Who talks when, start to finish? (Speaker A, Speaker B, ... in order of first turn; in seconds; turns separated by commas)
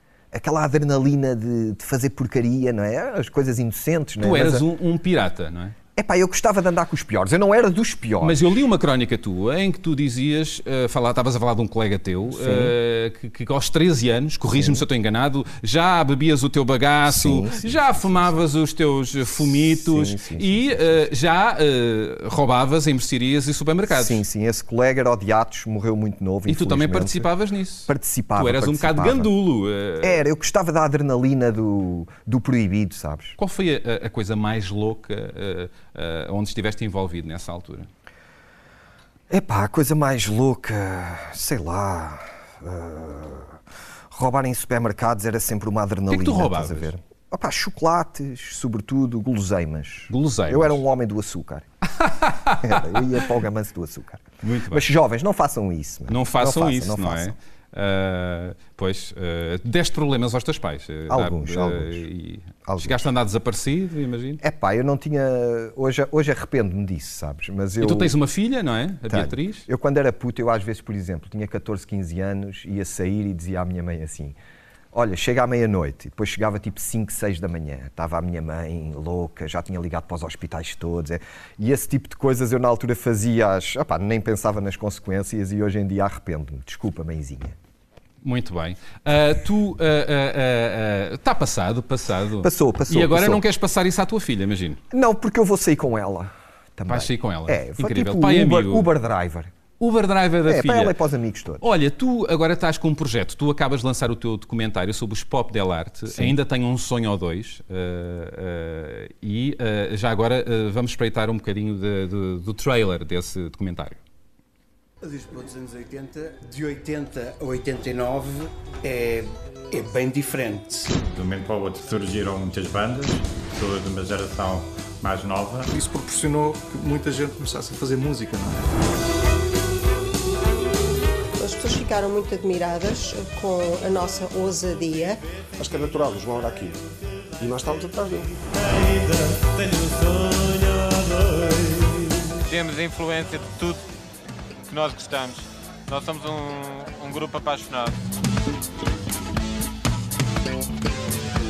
Speaker A: 0.3-4.7, Speaker B: 4.2-5.7, Speaker A: 6.0-8.5, Speaker B: 8.2-24.2, Speaker A: 12.3-12.7, Speaker A: 14.5-14.8, Speaker A: 17.1-18.3, Speaker A: 19.3-21.0, Speaker A: 23.9-27.3, Speaker B: 26.5-30.2, Speaker A: 27.9-29.3, Speaker A: 30.0-33.4, Speaker B: 33.4-37.9, Speaker A: 39.3-43.6, Speaker A: 44.1-51.6, Speaker B: 46.1-46.9, Speaker B: 50.1-50.8, Speaker B: 52.0-53.0, Speaker A: 52.6-57.3, Speaker B: 54.4-54.9, Speaker B: 56.1-64.4, Speaker A: 61.1-62.0, Speaker A: 62.6-63.1, Speaker A: 64.4-68.2, Speaker B: 67.8-69.7, Speaker A: 69.1-74.3, Speaker A: 74.9-87.5, Speaker B: 88.2-94.8, Speaker A: 92.4-93.4, Speaker A: 94.9-99.5, Speaker B: 96.9-98.9, Speaker B: 99.8-100.9, Speaker A: 100.5-101.6, Speaker B: 101.6-114.0, Speaker A: 106.1-106.4, Speaker C: 115.0-121.0, Speaker D: 121.1-125.7, Speaker E: 125.7-128.7, Speaker F: 131.4-135.2, Speaker G: 135.6-136.8, Speaker G: 137.4-138.3, Speaker H: 142.4-143.8, Speaker H: 144.7-147.9